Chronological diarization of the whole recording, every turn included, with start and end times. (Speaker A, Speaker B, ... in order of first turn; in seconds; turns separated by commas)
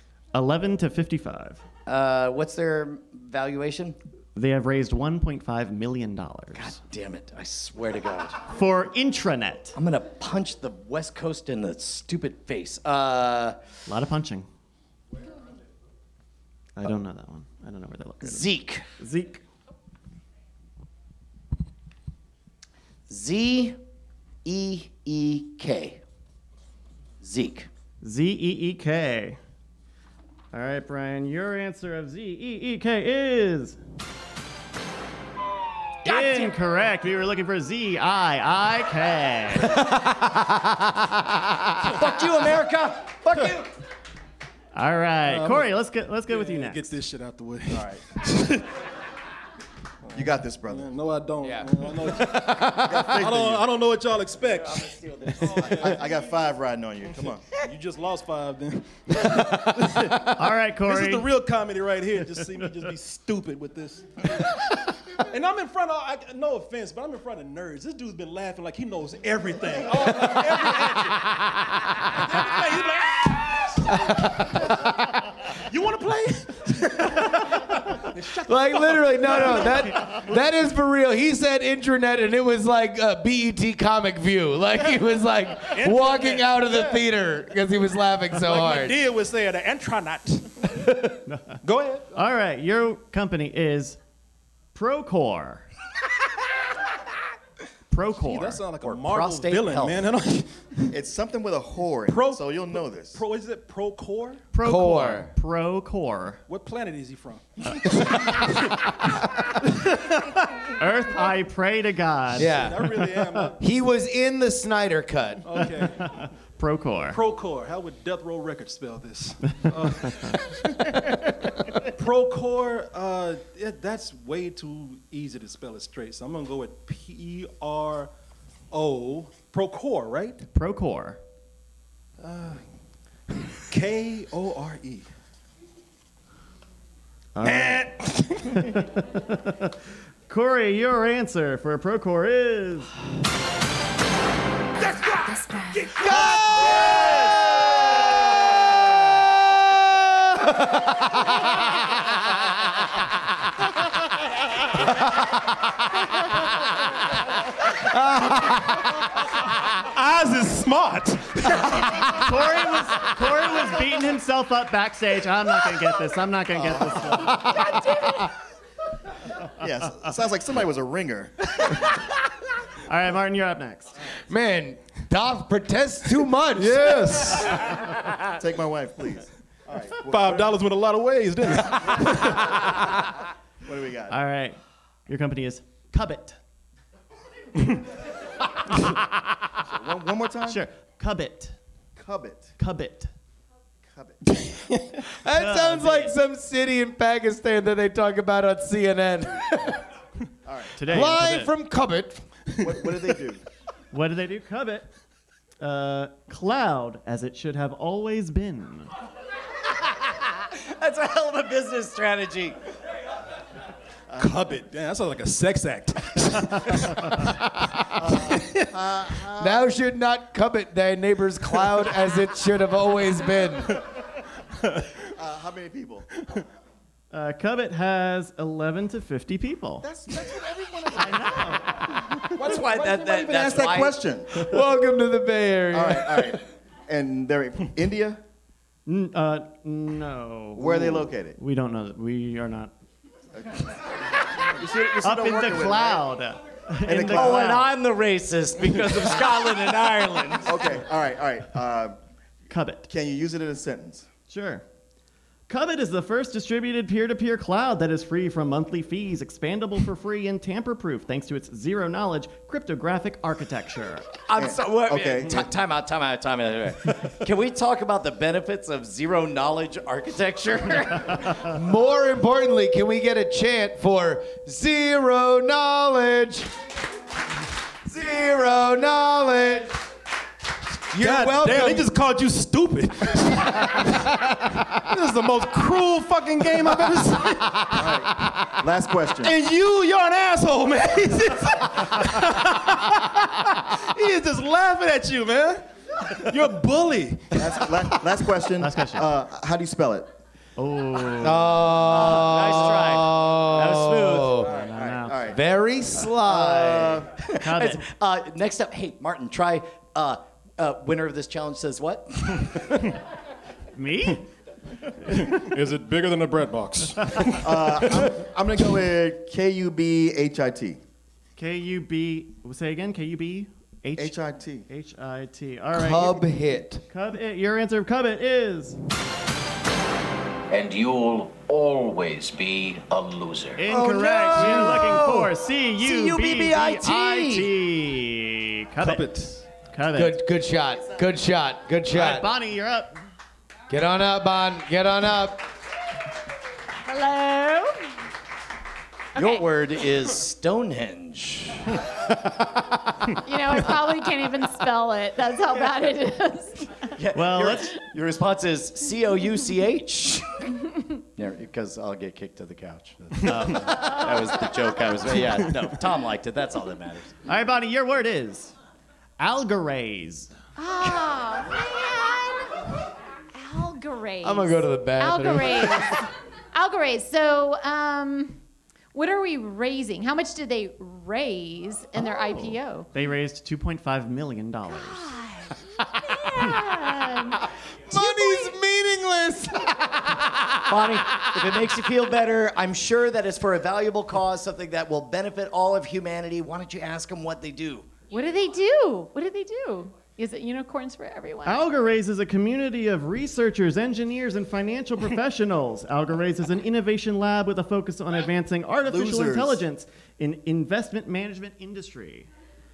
Speaker A: 0.3-1.6, Speaker B: 1.9-4.0, Speaker A: 4.3-6.8, Speaker B: 6.5-8.4, Speaker A: 8.5-9.8, Speaker B: 9.8-13.6, Speaker A: 13.9-14.5, Speaker A: 16.8-19.4, Speaker B: 18.2-18.8, Speaker B: 23.1-23.8, Speaker B: 24.4-26.0, Speaker B: 27.2-27.7, Speaker A: 28.0-29.4, Speaker A: 30.5-33.8, Speaker B: 36.0-36.5, Speaker A: 36.0-39.8, Speaker B: 39.8-40.0, Speaker C: 40.4-41.7, Speaker B: 41.8-43.7, Speaker A: 44.7-46.9, Speaker D: 45.2-45.7, Speaker D: 46.3-48.7, Speaker E: 47.7-48.0, Speaker E: 50.1-50.9, Speaker D: 50.2-56.1, Speaker C: 51.4-53.0, Speaker E: 52.7-53.7, Speaker E: 55.4-57.4, Speaker D: 57.5-60.0, Speaker A: 59.8-61.3, Speaker D: 60.8-71.3, Speaker D: 72.0-74.8, Speaker D: 75.6-79.8, Speaker C: 78.5-89.0, Speaker D: 85.7-87.0, Speaker D: 88.3-90.8, Speaker D: 91.6-92.1, Speaker A: 92.1-94.0, Speaker A: 94.7-95.7, Speaker A: 97.9-98.6, Speaker D: 98.2-100.9, Speaker B: 98.8-100.1, Speaker E: 100.9-103.2, Speaker D: 102.1-104.5, Speaker A: 104.5-106.4, Speaker C: 104.6-105.3, Speaker D: 106.5-108.1, Speaker A: 110.8-113.5, Speaker C: 112.3-113.0, Speaker D: 112.4-113.6, Speaker C: 113.6-115.6, Speaker D: 115.4-116.0, Speaker A: 115.6-117.2, Speaker D: 117.1-120.3, Speaker A: 119.8-120.2, Speaker D: 121.9-128.1, Speaker D: 128.7-130.4, Speaker A: 130.5-131.2, Speaker D: 132.2-132.6, Speaker D: 133.7-135.1, Speaker A: 137.3-137.9, Speaker D: 137.4-138.5, Speaker A: 138.5-139.7, Speaker A: 140.3-142.9, Speaker F: 145.4-145.8, Speaker C: 157.8-158.8, Speaker D: 159.8-161.9, Speaker A: 162.0-167.8, Speaker E: 166.5-167.0, Speaker E: 169.6-171.3, Speaker A: 172.9-173.9, Speaker C: 174.3-177.2, Speaker D: 176.6-177.7, Speaker E: 178.3-180.6, Speaker D: 180.0-182.5, Speaker E: 183.6-184.1, Speaker A: 184.1-186.4, Speaker E: 189.6-190.6, Speaker A: 190.4-191.6, Speaker E: 191.9-192.5, Speaker A: 192.6-193.1, Speaker E: 193.9-194.2, Speaker C: 195.1-199.8, Speaker A: 195.3-196.2, Speaker E: 200.4-200.7, Speaker A: 200.7-201.5, Speaker C: 200.9-202.2, Speaker E: 202.6-203.4, Speaker A: 203.9-204.9, Speaker A: 205.6-208.9, Speaker B: 210.4-212.6, Speaker E: 214.1-214.5, Speaker D: 214.1-217.2, Speaker E: 217.9-219.6, Speaker D: 218.3-218.7, Speaker C: 219.4-223.8, Speaker E: 225.2-226.1, Speaker A: 227.1-229.9, Speaker E: 229.8-231.4, Speaker A: 230.9-232.1, Speaker E: 232.3-234.4, Speaker B: 232.3-234.0, Speaker C: 234.3-236.4, Speaker E: 235.7-238.2, Speaker A: 238.8-242.7, Speaker E: 240.6-241.4, Speaker E: 243.3-243.7, Speaker E: 244.5-246.1, Speaker A: 245.0-247.7, Speaker E: 246.8-247.6, Speaker B: 247.0-250.7, Speaker E: 250.4-252.0, Speaker A: 252.5-252.9, Speaker E: 252.9-254.1, Speaker A: 254.3-254.6, Speaker A: 255.5-264.1, Speaker B: 264.2-271.2, Speaker E: 264.4-265.5, Speaker C: 271.4-276.5, Speaker C: 277.8-279.8, Speaker C: 280.9-281.9, Speaker D: 280.9-284.2, Speaker D: 284.7-287.9, Speaker E: 287.7-289.3, Speaker D: 289.2-298.0, Speaker E: 297.3-300.1, Speaker A: 298.6-299.1, Speaker A: 300.6-301.7, Speaker C: 301.2-304.5, Speaker B: 301.9-304.4, Speaker E: 304.4-305.4, Speaker A: 304.4-305.3, Speaker C: 305.3-307.1, Speaker E: 306.1-307.1, Speaker B: 307.2-312.8, Speaker A: 307.3-307.8, Speaker A: 313.7-314.3, Speaker D: 315.1-318.1, Speaker E: 317.4-320.8, Speaker A: 321.4-324.2, Speaker E: 324.0-324.6, Speaker A: 324.7-326.3, Speaker C: 325.7-326.8, Speaker A: 326.9-328.8, Speaker G: 330.5-333.6, Speaker A: 333.6-340.2, Speaker B: 333.7-337.5, Speaker D: 338.8-339.4, Speaker C: 339.9-342.3, Speaker A: 341.9-343.0, Speaker C: 343.7-345.4, Speaker F: 346.8-347.7, Speaker F: 349.1-349.4, Speaker B: 349.1-351.7, Speaker F: 353.2-356.9, Speaker B: 357.0-360.4, Speaker A: 357.1-357.7, Speaker B: 361.1-367.1, Speaker A: 363.3-363.6, Speaker F: 363.6-364.1, Speaker A: 367.2-368.5, Speaker A: 369.2-370.3, Speaker F: 370.6-372.6, Speaker F: 373.3-378.4, Speaker C: 374.2-376.0, Speaker F: 378.9-382.9, Speaker A: 382.0-385.1, Speaker F: 384.7-385.5, Speaker F: 386.1-388.5, Speaker C: 387.9-390.7, Speaker B: 390.7-397.9, Speaker F: 398.1-401.6, Speaker A: 401.4-412.3, Speaker E: 408.8-409.6